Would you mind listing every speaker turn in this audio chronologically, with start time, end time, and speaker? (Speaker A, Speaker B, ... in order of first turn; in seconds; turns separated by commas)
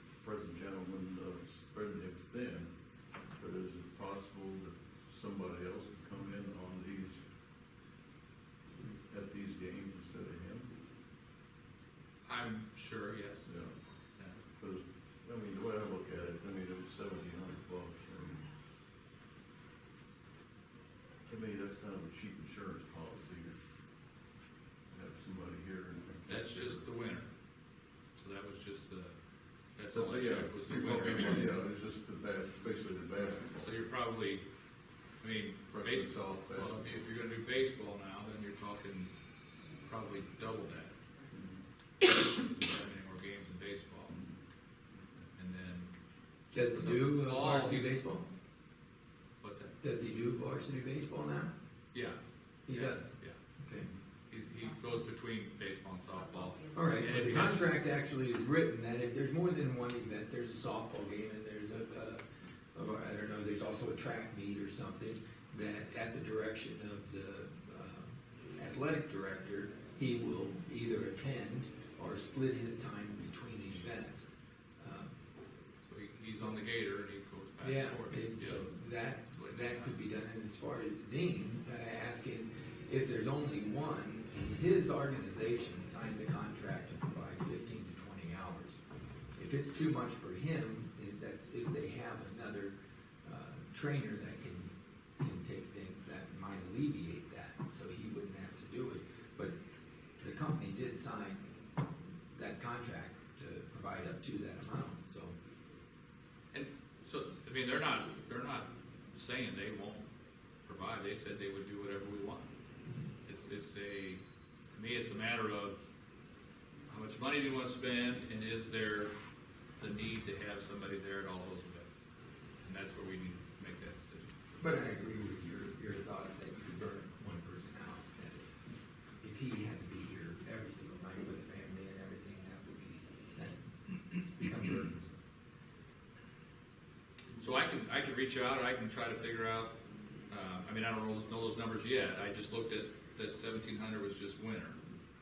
Speaker A: 0.2-2.7, Speaker A: 3.4-7.2, Speaker A: 9.1-10.7, Speaker B: 12.2-13.5, Speaker A: 13.4-13.7, Speaker A: 14.6-18.4, Speaker A: 21.2-23.6, Speaker A: 24.9-26.8, Speaker B: 26.3-27.3, Speaker B: 28.1-29.1, Speaker B: 29.8-31.6, Speaker A: 29.9-33.7, Speaker B: 33.6-34.4, Speaker B: 35.2-39.1, Speaker A: 35.7-36.7, Speaker B: 39.8-41.0, Speaker A: 41.3-41.6, Speaker B: 42.3-44.2, Speaker B: 45.3-45.9, Speaker C: 46.5-48.3, Speaker B: 46.6-48.0, Speaker B: 49.4-49.7, Speaker C: 49.8-51.5, Speaker B: 51.9-53.4, Speaker C: 52.6-53.9, Speaker B: 54.3-57.7, Speaker C: 56.7-62.2, Speaker C: 62.7-74.2, Speaker C: 74.8-75.1, Speaker B: 75.8-78.6, Speaker C: 77.6-88.8, Speaker B: 79.3-79.9, Speaker C: 89.3-99.5, Speaker C: 100.2-105.3, Speaker B: 106.5-110.0, Speaker B: 110.7-112.5, Speaker B: 113.2-114.2, Speaker B: 114.7-115.8, Speaker B: 116.9-119.1, Speaker B: 119.8-122.0, Speaker B: 122.6-124.3, Speaker C: 124.6-128.5, Speaker C: 129.2-135.1, Speaker B: 137.4-139.7, Speaker B: 140.3-144.8